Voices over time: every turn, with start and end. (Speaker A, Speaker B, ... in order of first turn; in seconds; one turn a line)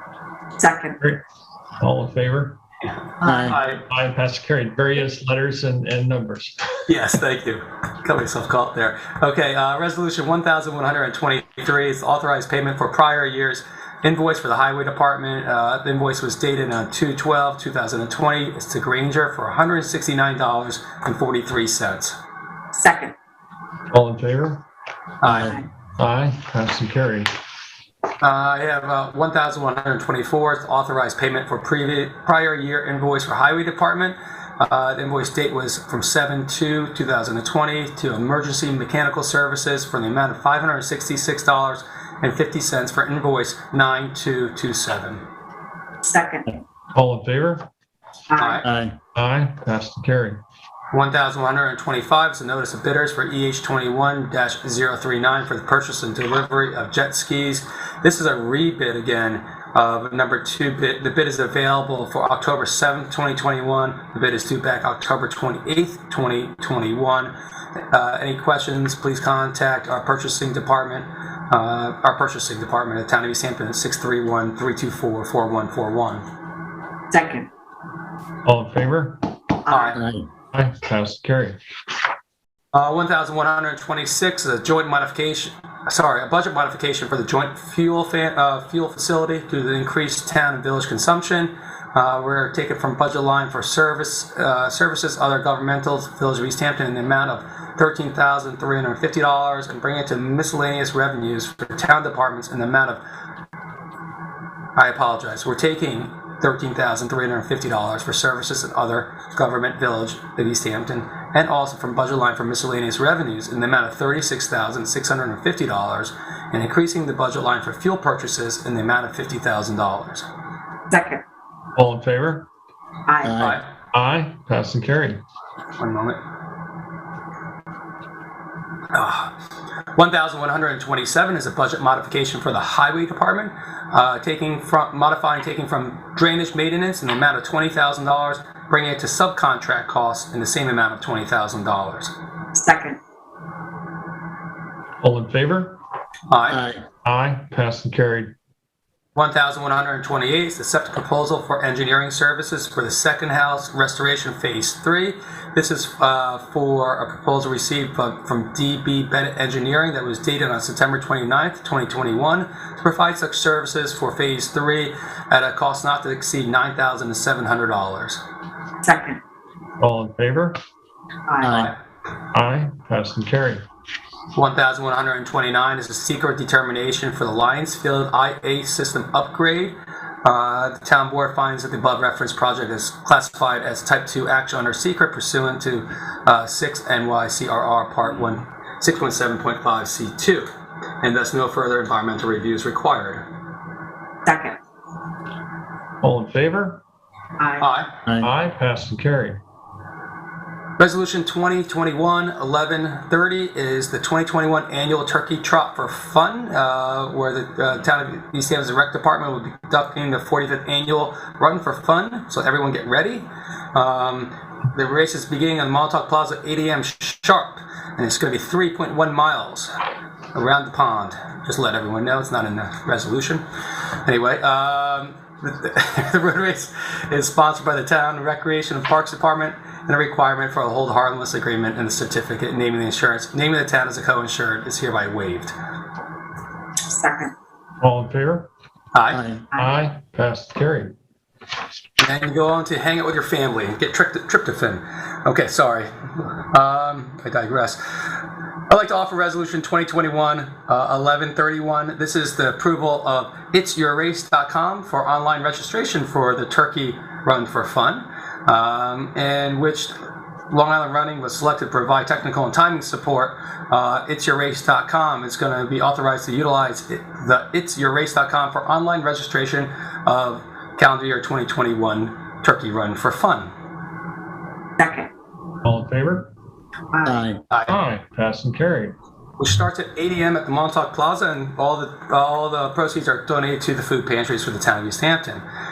Speaker A: 0.6-1.0
Speaker B: 1.8-2.6
Speaker A: 3.2-3.5
Speaker C: 3.2-3.6
Speaker B: 3.5-6.8
Speaker D: 6.9-22.2
Speaker A: 22.7-23.1
Speaker B: 23.9-24.6
Speaker D: 25.2-25.5
Speaker C: 25.2-25.6
Speaker B: 26.0-27.3
Speaker D: 28.2-45.2
Speaker A: 46.0-46.5
Speaker B: 47.0-47.7
Speaker A: 48.3-48.6
Speaker D: 48.4-48.7
Speaker C: 48.6-49.0
Speaker B: 49.1-50.4
Speaker D: 50.9-67.3
Speaker D: 67.9-76.2
Speaker A: 77.1-77.5
Speaker B: 78.5-79.2
Speaker A: 79.7-80.0
Speaker D: 79.7-80.0
Speaker C: 80.0-80.3
Speaker B: 80.5-81.6
Speaker D: 82.7-103.0
Speaker D: 104.8-120.3
Speaker A: 120.9-121.2
Speaker B: 121.8-122.5
Speaker A: 123.1-123.4
Speaker C: 123.2-123.6
Speaker D: 123.4-123.7
Speaker B: 123.9-125.2
Speaker D: 125.8-126.2
Speaker D: 128.9-129.3
Speaker D: 129.9-142.1
Speaker A: 142.6-143.0
Speaker B: 145.0-145.8
Speaker D: 146.3-146.6
Speaker C: 146.5-146.8
Speaker B: 147.1-148.3
Speaker D: 149.2-168.2
Speaker A: 168.8-169.2
Speaker B: 169.8-170.6
Speaker A: 171.3-171.6
Speaker C: 171.4-171.7
Speaker B: 172.3-173.7
Speaker D: 174.3-190.5
Speaker D: 191.0-193.2
Speaker A: 194.3-194.6
Speaker B: 196.0-196.8
Speaker A: 197.4-197.7
Speaker D: 197.6-197.9
Speaker C: 198.1-198.3
Speaker B: 198.2-199.4
Speaker D: 200.8-219.8
Speaker D: 220.3-223.4
Speaker D: 224.0-235.5
Speaker A: 236.9-237.3
Speaker B: 237.8-238.5
Speaker D: 238.9-239.2
Speaker C: 239.1-239.5
Speaker B: 239.6-240.9
Speaker D: 242.0-259.9
Speaker D: 260.5-273.5
Speaker A: 274.8-275.1
Speaker B: 275.6-276.3
Speaker A: 276.9-277.2
Speaker C: 277.1-277.4
Speaker B: 277.7-279.0
Speaker D: 279.4-285.4